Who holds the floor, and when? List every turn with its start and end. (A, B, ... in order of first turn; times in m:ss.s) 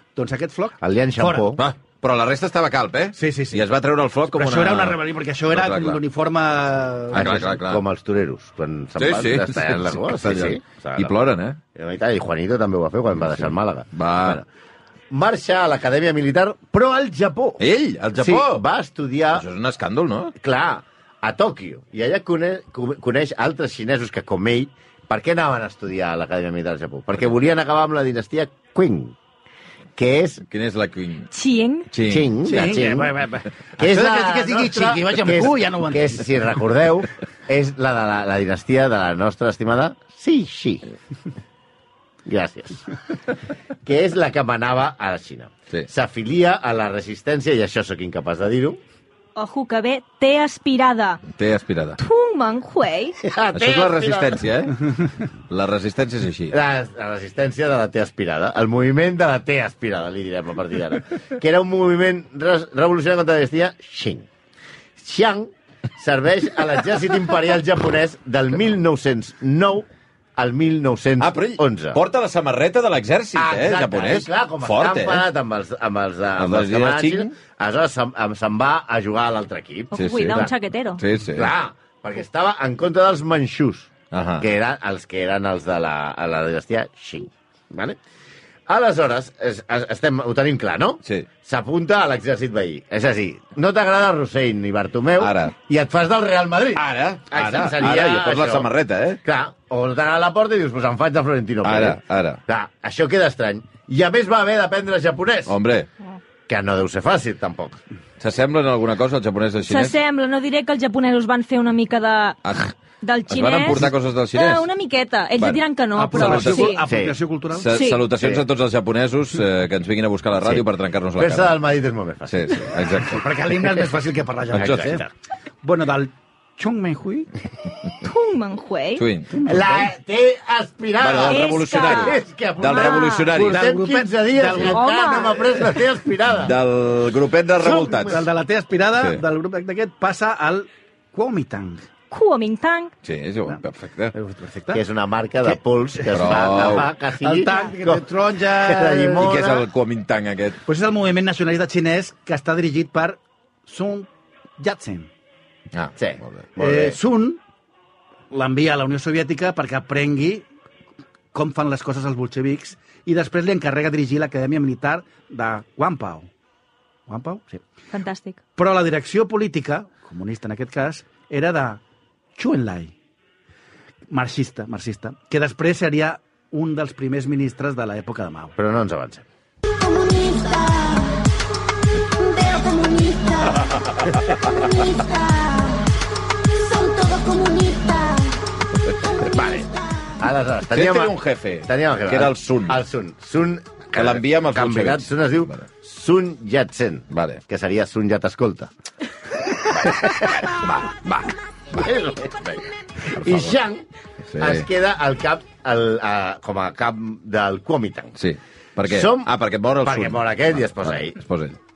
0:00.2-0:01.5 A
0:00.8-0:01.6 B
0:01.6-0:05.0 C
0:03.1-0:03.7 A
0:04.3-0:07.5 A
0:05.5-0:06.0 C
0:07.1-0:07.8 C
0:07.1-0:11.2 B
0:09.0-0:11.6 C
0:11.7-0:14.4 B
0:13.3-0:14.4 C
0:15.1-0:19.4 B
0:17.6-0:18.6 C
0:19.3-0:20.3 C
0:20.4-0:29.2 B
0:30.0-0:30.4 B
0:30.5-0:31.3 C
0:31.3-0:31.9 D
0:31.9-0:32.3 C
0:32.0-0:33.1 B
0:32.4-0:36.5 A
0:33.8-0:40.8 B
0:42.2-0:42.9 B
0:43.8-0:48.8 B
0:49.3-0:51.2 D
0:51.3-0:52.0 C
0:52.0-0:53.2 D
0:53.2-0:54.4 B
0:53.5-0:56.6 C
0:56.5-1:04.3 B
1:05.0-1:12.0 B
1:11.2-1:15.3 C
1:13.3-1:20.5 B
1:16.4-1:17.3 C
1:19.9-1:21.0 D
1:19.9-1:21.5 C
1:21.3-1:28.0 B
1:24.1-1:24.5 C
1:28.7-1:38.7 B
1:35.2-1:35.5 C
1:36.7-1:39.2 C
1:39.2-1:45.6 B
1:41.6-1:42.4 C
1:45.5-1:45.9 C
1:46.5-1:47.8 B
1:48.2-1:50.0 C
1:49.7-1:52.4 D
1:52.4-1:52.7 C
1:53.0-1:56.8 D
1:53.3-1:54.7 C
1:55.4-1:56.8 C
1:55.9-1:57.8 A
1:56.8-1:57.1 B
1:57.5-2:01.6 C
1:57.7-1:58.0 D
1:58.1-1:58.4 B
2:00.4-2:00.6 B
2:01.2-2:02.9 B
2:02.3-2:03.3 C
2:03.0-2:05.0 A
2:04.5-2:05.0 C
2:04.5-2:05.1 B
2:05.6-2:07.3 A
2:08.0-2:09.0 D
2:09.0-2:09.4 C
2:09.3-2:09.9 A
2:09.4-2:16.6 B
2:11.0-2:13.7 C
2:11.3-2:13.3 D
2:13.3-2:14.9 A
2:14.6-2:15.4 D
2:16.4-2:18.2 C
2:17.6-2:18.2 B
2:18.1-2:21.8 A
2:22.1-2:22.9 D
2:23.0-2:24.1 C
2:24.1-2:24.8 A
2:24.7-2:29.6 B
2:26.1-2:26.9 C
2:27.2-2:29.4 A
2:29.2-2:30.6 C
2:30.6-2:35.1 A
2:35.7-2:36.4 C
2:36.0-2:37.0 B
2:36.6-2:37.4 A
2:38.3-2:40.5 A
2:41.3-2:46.3 A
2:47.1-2:47.6 A
2:47.9-2:48.4 D
2:48.6-2:51.8 A
2:52.4-2:52.9 A
2:54.1-2:58.5 A
2:58.6-2:59.2 B
2:59.8-3:01.2 E
3:02.2-3:03.5 E
3:04.6-3:05.9 E
3:06.5-3:08.4 E
3:09.1-3:18.7 B
3:10.7-3:12.8 C
3:13.9-3:15.6 C
3:17.1-3:17.4 C
3:19.7-3:20.5 B
3:20.0-3:21.3 C
3:21.7-3:23.8 B
3:23.2-3:23.5 C
3:24.3-3:24.6 C
3:24.4-3:28.2 B
3:28.2-3:31.6 C
3:28.8-3:31.2 B